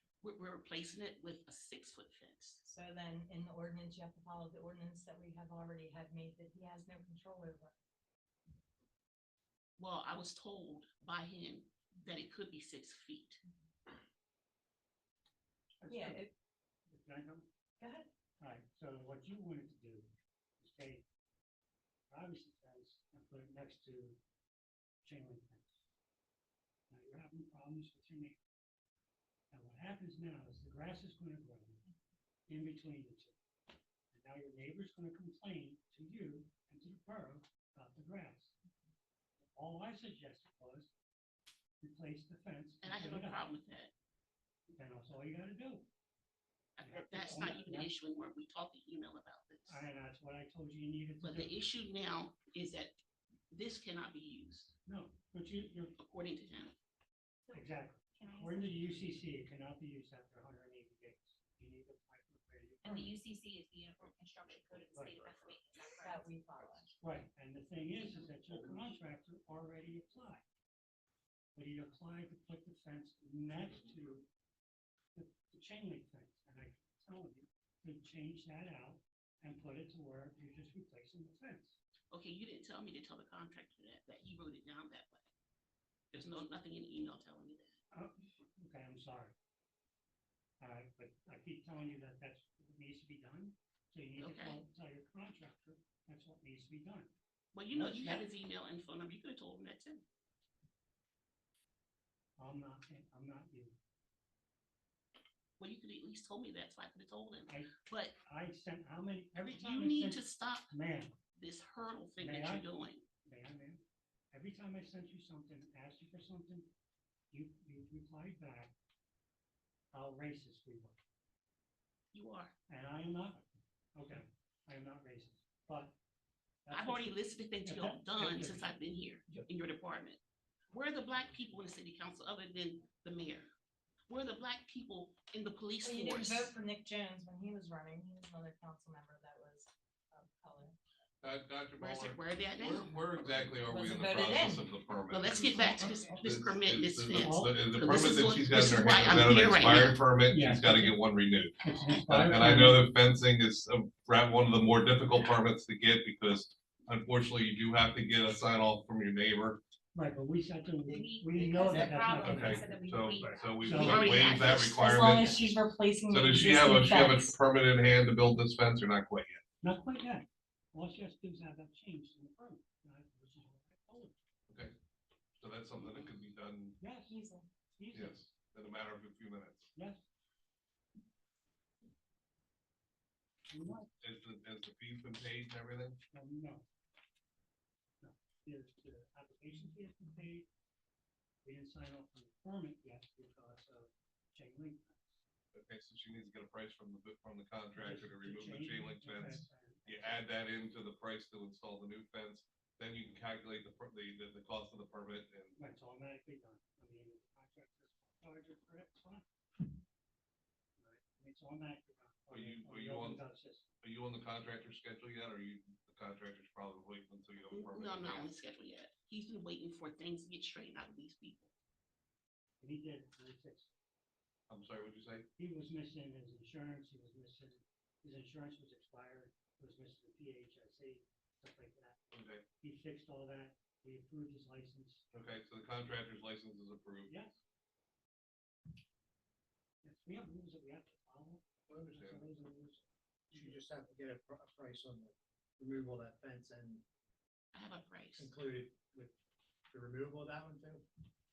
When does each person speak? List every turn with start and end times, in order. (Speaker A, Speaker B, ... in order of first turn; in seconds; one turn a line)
Speaker A: 0.2-2.6
Speaker B: 2.6-7.7
Speaker A: 9.8-13.4
Speaker C: 15.8-16.3
Speaker B: 15.9-16.3
Speaker C: 16.9-17.4
Speaker B: 17.8-18.1
Speaker C: 18.4-21.0
Speaker C: 22.1-24.2
Speaker C: 25.0-25.8
Speaker C: 26.9-28.4
Speaker C: 29.5-31.8
Speaker C: 32.5-33.3
Speaker C: 34.1-38.5
Speaker C: 39.4-40.9
Speaker C: 41.8-43.5
Speaker A: 42.8-43.9
Speaker C: 44.7-45.8
Speaker A: 46.8-49.8
Speaker C: 46.8-47.9
Speaker C: 49.7-51.5
Speaker A: 51.2-53.0
Speaker A: 53.5-54.7
Speaker C: 54.8-55.9
Speaker A: 56.0-56.7
Speaker D: 57.5-58.9
Speaker C: 57.5-63.1
Speaker D: 62.8-66.3
Speaker C: 64.9-65.4
Speaker B: 65.9-66.9
Speaker C: 67.0-70.4
Speaker C: 71.5-74.2
Speaker C: 75.1-81.8
Speaker A: 82.1-85.3
Speaker A: 86.1-87.8
Speaker C: 87.9-89.3
Speaker C: 90.6-97.1
Speaker A: 94.2-94.6
Speaker A: 97.5-100.0
Speaker C: 97.7-98.3
Speaker C: 102.4-103.7
Speaker A: 105.6-108.1
Speaker C: 108.2-111.2
Speaker A: 109.3-110.7
Speaker A: 111.4-113.0
Speaker C: 112.2-112.7
Speaker C: 113.2-116.7
Speaker C: 117.3-118.7
Speaker C: 119.9-121.0
Speaker A: 122.1-122.5
Speaker C: 122.7-126.0
Speaker C: 126.6-128.7
Speaker A: 126.7-130.2
Speaker A: 130.7-133.5
Speaker A: 134.1-136.5
Speaker B: 135.8-140.8
Speaker E: 141.2-159.6
Speaker A: 141.8-143.0
Speaker B: 143.6-144.7
Speaker A: 145.1-150.0
Speaker B: 145.5-146.2
Speaker C: 147.2-147.7
Speaker C: 150.3-151.0
Speaker C: 151.6-152.8
Speaker C: 159.9-162.8
Speaker D: 160.8-164.7
Speaker E: 162.2-165.4
Speaker C: 163.6-164.0
Speaker A: 163.8-164.8
Speaker B: 164.7-167.3
Speaker E: 166.1-169.4
Speaker C: 169.6-174.1
Speaker E: 174.5-174.7
Speaker E: 175.4-176.8
Speaker A: 175.8-176.1
Speaker C: 176.8-177.2
Speaker B: 177.1-177.4
Speaker C: 177.7-178.2
Speaker E: 177.9-179.7
Speaker C: 179.7-180.0
Speaker C: 183.5-183.9
Speaker E: 184.0-186.0
Speaker C: 186.1-186.6
Speaker C: 188.0-190.5
Speaker C: 191.4-195.2
Speaker E: 195.5-205.5
Speaker C: 197.8-200.3
Speaker C: 205.5-209.2
Speaker C: 210.8-213.7
Speaker E: 212.3-213.2
Speaker E: 213.8-218.3
Speaker A: 217.5-221.5
Speaker C: 222.6-223.7
Speaker E: 224.5-225.3
Speaker C: 225.4-232.0
Speaker E: 232.1-232.4
Speaker C: 232.6-235.1
Speaker E: 235.1-237.1
Speaker C: 237.1-237.4
Speaker C: 239.8-243.6
Speaker E: 241.7-242.3
Speaker F: 243.3-246.8
Speaker A: 247.5-248.3
Speaker F: 248.2-249.1
Speaker F: 249.7-250.8